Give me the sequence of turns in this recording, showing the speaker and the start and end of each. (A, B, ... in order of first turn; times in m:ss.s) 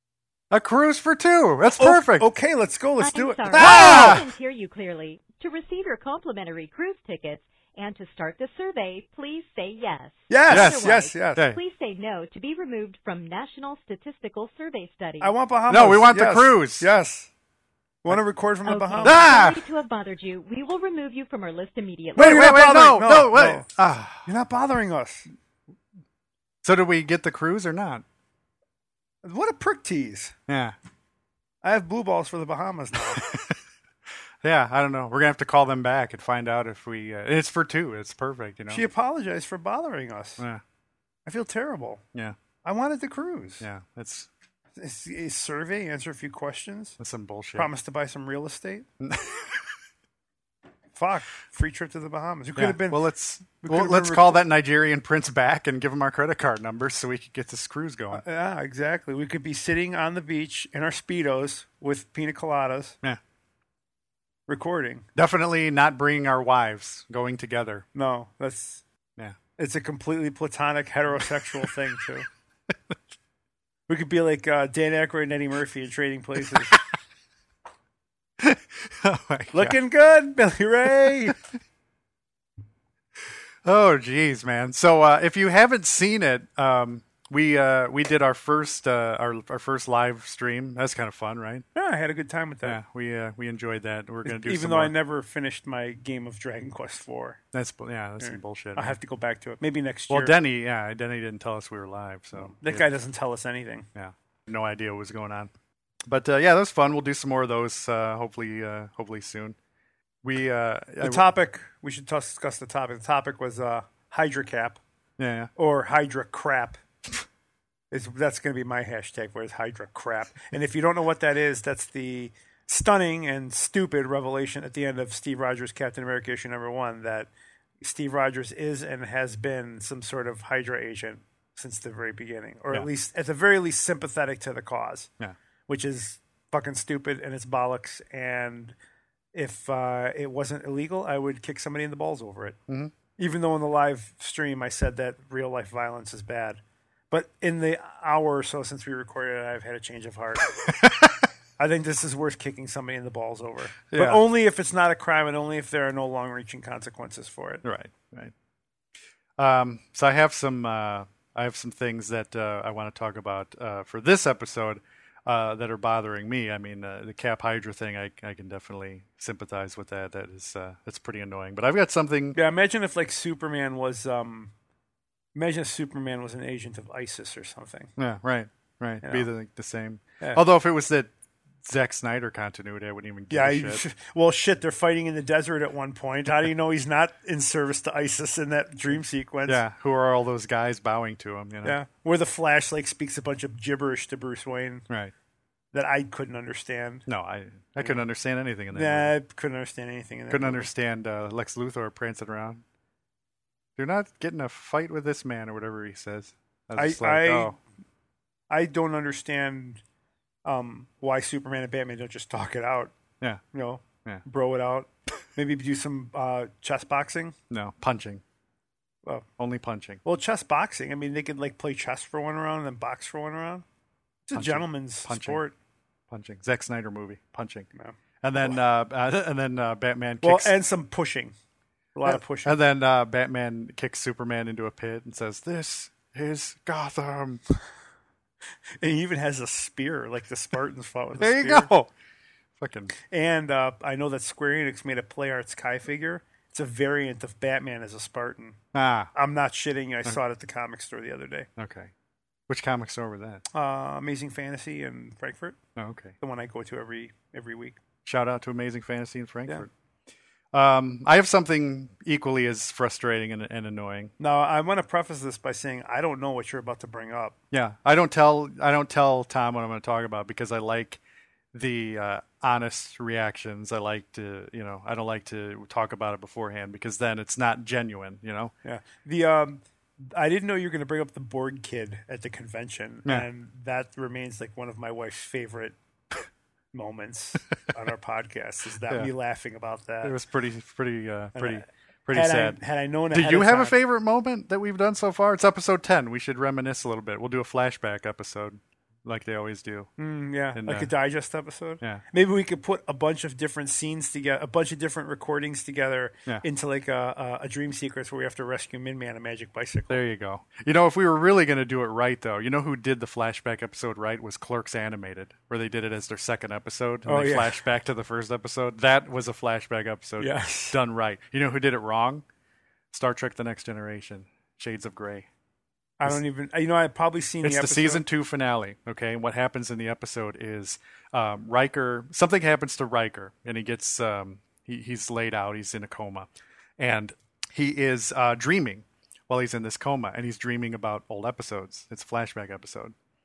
0:00.5-0:02.3 A
0:01.8-0:04.2 B
0:03.0-0:15.3 C
0:03.5-0:04.3 A
0:10.3-0:11.5 B
0:10.5-0:11.6 A
0:15.2-0:17.3 B
0:15.7-0:16.9 A
0:18.0-0:19.2 B
0:18.6-0:22.4 C
0:19.0-0:19.6 A
0:22.2-0:23.6 B
0:22.2-0:24.3 A
0:24.2-0:25.3 B
0:26.6-0:28.0 A
0:29.2-0:30.3 B
0:30.5-0:30.7 A
0:31.6-0:33.2 B
0:33.1-0:33.6 A
0:34.4-0:38.8 A
0:38.7-0:40.4 B
0:41.2-0:42.0 B
0:42.6-0:43.6 B
0:43.6-0:44.3 A
0:44.8-0:47.0 B
0:47.0-0:47.7 A
0:47.5-0:48.8 B
0:49.0-0:49.6 A
0:50.9-0:53.0 B
0:52.6-0:58.2 A
0:53.6-0:54.4 B
0:58.1-1:03.0 B
1:04.5-1:05.0 B
1:05.2-1:07.8 A
1:07.9-1:08.8 B
1:09.6-1:12.3 B
1:13.9-1:16.8 B
1:18.4-1:19.8 A
1:19.5-1:21.4 B
1:23.6-1:31.6 A
1:31.7-1:32.8 B
1:32.6-1:34.9 A
1:34.2-1:37.4 B
1:37.5-1:39.0 A
1:38.2-1:40.4 B
1:40.1-1:42.8 A
1:42.3-1:43.9 B
1:43.9-1:45.5 A
1:46.1-1:49.6 A
1:50.2-1:51.2 A
1:51.0-1:54.8 B
1:55.2-1:55.5 A
1:55.6-1:56.8 B
1:57.9-2:15.1 B
2:15.7-2:18.7 B
2:19.3-2:22.6 B
2:22.7-2:22.9 A
2:23.2-2:30.4 B
2:30.7-2:31.2 A
2:31.6-2:37.6 B
2:33.9-2:34.2 A
2:37.6-2:38.3 A
2:39.4-2:52.4 A
2:52.3-2:54.5 B
2:55.3-2:57.9 B
2:58.0-3:01.1 A
3:01.6-3:03.8 A
3:03.3-3:09.6 B
3:09.5-3:11.8 A
3:11.6-3:14.8 B
3:15.7-3:17.0 B
3:17.0-3:19.1 A
3:18.7-3:20.7 B
3:20.3-3:22.6 A
3:23.8-3:27.6 A
3:26.7-3:27.5 B
3:28.5-3:29.8 B
3:30.4-3:32.9 B
3:33.5-3:37.4 B
3:37.5-3:38.2 A
3:39.4-3:40.0 A
3:40.0-3:43.6 B
3:44.3-3:45.5 B
3:44.3-3:45.4 A
3:46.1-3:47.7 A
3:47.7-3:48.6 B
3:48.2-3:50.5 A
3:50.2-3:51.3 B
3:51.9-3:52.5 B
3:52.0-3:57.4 A
3:58.8-4:01.7 B
4:01.2-4:01.9 A
4:02.6-4:02.9 A
4:03.0-4:08.6 B
4:08.7-4:09.1 A
4:09.1-4:11.5 B
4:11.6-4:11.9 A
4:12.5-4:13.4 A
4:13.5-4:15.6 B
4:15.8-4:16.1 A
4:16.2-4:17.8 B
4:18.0-4:19.7 A
4:20.5-4:24.1 A
4:24.2-4:27.4 B
4:27.5-4:31.0 A
4:31.5-4:38.5 A
4:38.6-4:45.8 B
4:46.7-4:50.2 B
4:50.0-4:52.6 A
4:51.3-4:53.8 B
4:53.1-4:59.9 A
5:00.0-5:10.0 B
5:00.5-5:00.9 A
5:09.9-5:22.2 A
5:17.0-5:17.6 B
5:20.2-5:20.8 B
5:22.9-5:25.3 A
5:26.0-5:28.0 B
5:27.4-5:42.9 A